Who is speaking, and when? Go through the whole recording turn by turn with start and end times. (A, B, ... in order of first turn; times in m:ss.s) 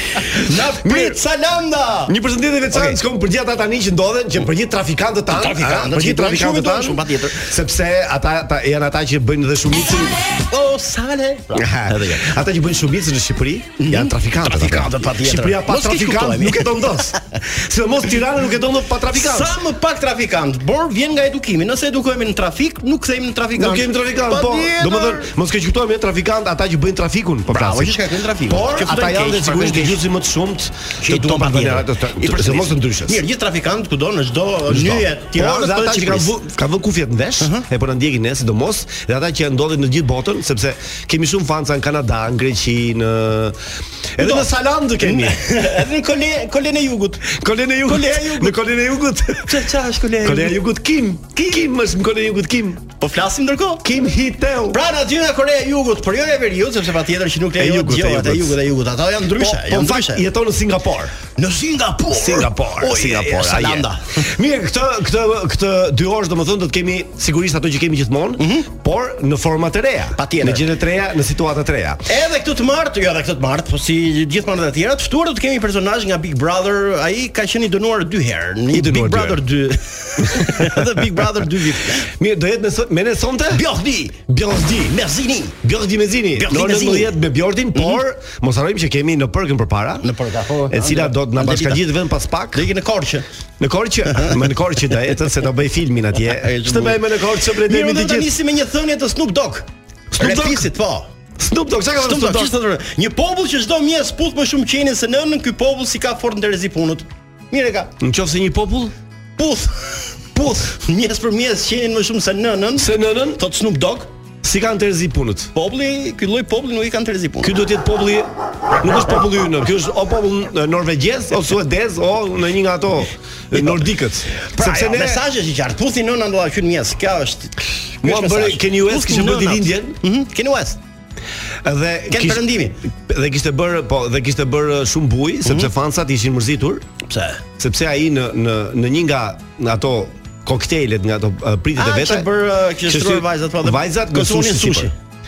0:00.3-0:02.1 A
0:00.5-0:01.2 B
0:02.1-0:10.3 B
0:02.7-0:03.0 A
0:05.3-0:07.5 A
0:10.5-0:12.3 A
0:11.5-0:19.6 B
0:13.8-0:17.2 A
0:19.1-0:25.3 A
0:23.6-0:33.2 B
0:27.5-0:30.0 A
0:31.0-0:36.3 A
0:34.7-0:43.6 B
0:44.1-0:45.4 B
0:44.2-0:44.5 A
0:45.0-0:47.3 A
0:47.2-0:49.6 B
0:47.8-0:48.6 A
0:49.5-0:50.6 A
0:50.2-0:52.8 B
0:51.3-0:51.7 A
0:53.0-0:53.9 A
0:53.8-0:54.8 B
0:54.7-1:00.2 A
0:57.6-0:58.6 B
0:59.3-1:01.1 B
1:01.4-1:04.2 A
1:02.1-1:12.0 B
1:08.4-1:08.7 A
1:10.2-1:10.7 A
1:12.1-1:22.1 A
1:18.7-1:19.4 B
1:20.3-1:21.0 B
1:21.9-1:23.6 B
1:23.5-1:25.6 A
1:24.3-1:24.9 B
1:25.6-1:30.1 B
1:26.4-1:27.1 A
1:27.7-1:28.0 A
1:30.0-1:31.8 A
1:30.7-1:32.7 B
1:32.5-1:33.2 A
1:33.6-1:38.3 B
1:36.3-1:37.0 A
1:37.6-1:41.1 A
1:40.1-1:40.7 B
1:41.4-1:42.5 B
1:42.0-1:47.9 A
1:48.0-1:48.9 B
1:49.4-1:50.0 A
1:50.3-1:50.6 B
1:50.6-1:54.1 A
1:52.8-1:53.4 B
1:54.4-1:55.5 B
1:55.5-1:57.6 A
1:57.4-2:05.2 B
2:03.5-2:03.8 A
2:04.4-2:10.8 A
2:08.0-2:10.0 B
2:11.6-2:16.8 B
2:12.1-2:12.8 A
2:15.4-2:15.7 A
2:17.1-2:17.4 A
2:17.6-2:22.3 B
2:21.8-2:24.9 A
2:22.8-2:24.9 B